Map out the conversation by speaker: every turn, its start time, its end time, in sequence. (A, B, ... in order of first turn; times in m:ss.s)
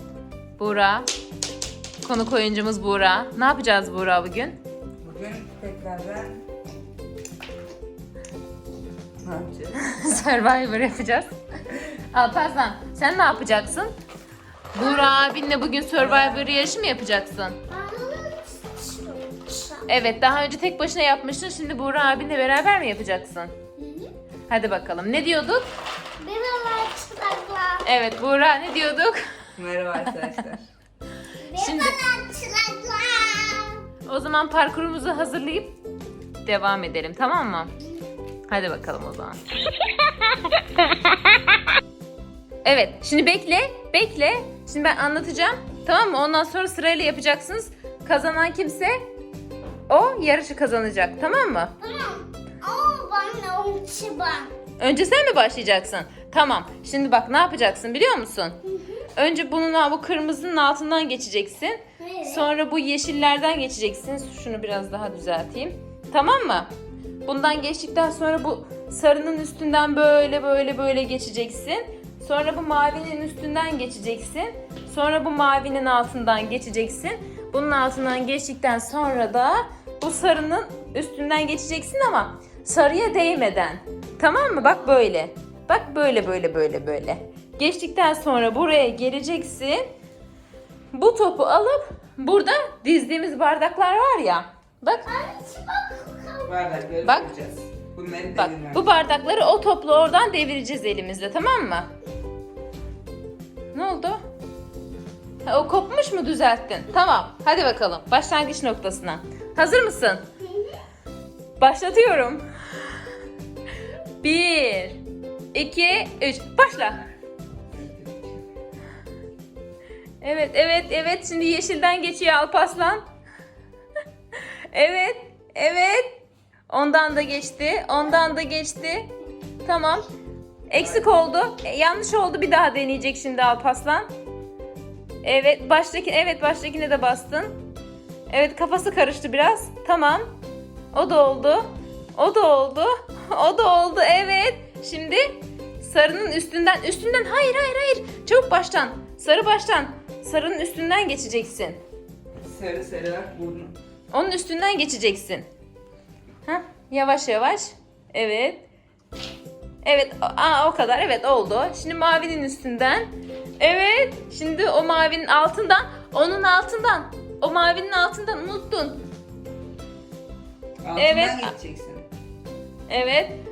0:00.6-0:01.1 A
0:02.0-0:04.6 A
0:05.0-0:06.4 B
0:09.2-0:10.2 B
0:09.8-0:11.3 A
0:12.1-0:13.9 A
0:14.7-0:17.6 A
0:14.8-0:15.1 C
0:16.0-0:16.6 B
0:17.7-0:19.9 C
0:19.9-0:23.5 A
0:23.8-0:24.1 C
0:24.5-0:25.6 A
0:26.2-0:27.8 C
0:27.8-0:29.2 A
0:29.6-0:30.7 B
0:31.4-0:33.8 C
0:31.6-0:32.0 A
0:34.1-0:35.8 A
0:36.4-0:37.7 A
0:38.5-0:39.4 A
0:42.6-0:49.0 A
0:49.9-0:51.7 A
0:51.8-0:54.5 C
0:54.8-0:58.6 A
0:58.7-0:59.0 C
0:59.2-1:06.7 A
1:02.0-1:02.5 C
1:07.3-1:29.9 A
1:30.9-1:35.1 A
1:35.1-1:36.5 C
1:36.4-1:38.9 B
1:37.0-1:37.3 A
1:38.3-1:41.9 A
1:43.7-1:44.2 A
1:45.4-1:50.3 A
1:51.6-1:52.4 A
1:54.2-1:55.0 A
1:55.5-1:57.1 A
1:57.7-1:58.4 B
2:00.2-2:03.0 A
2:04.7-2:09.1 A
2:09.6-2:10.1 A
2:10.7-2:14.1 A
2:15.2-2:17.6 A
2:18.3-2:20.3 A
2:20.9-2:25.3 A
2:25.8-2:31.8 A
2:32.4-2:33.8 B
2:34.1-2:35.5 A
2:36.5-2:38.7 A
2:39.8-2:49.0 A
2:50.8-2:52.1 B
2:51.0-2:51.5 A
2:52.9-2:53.4 A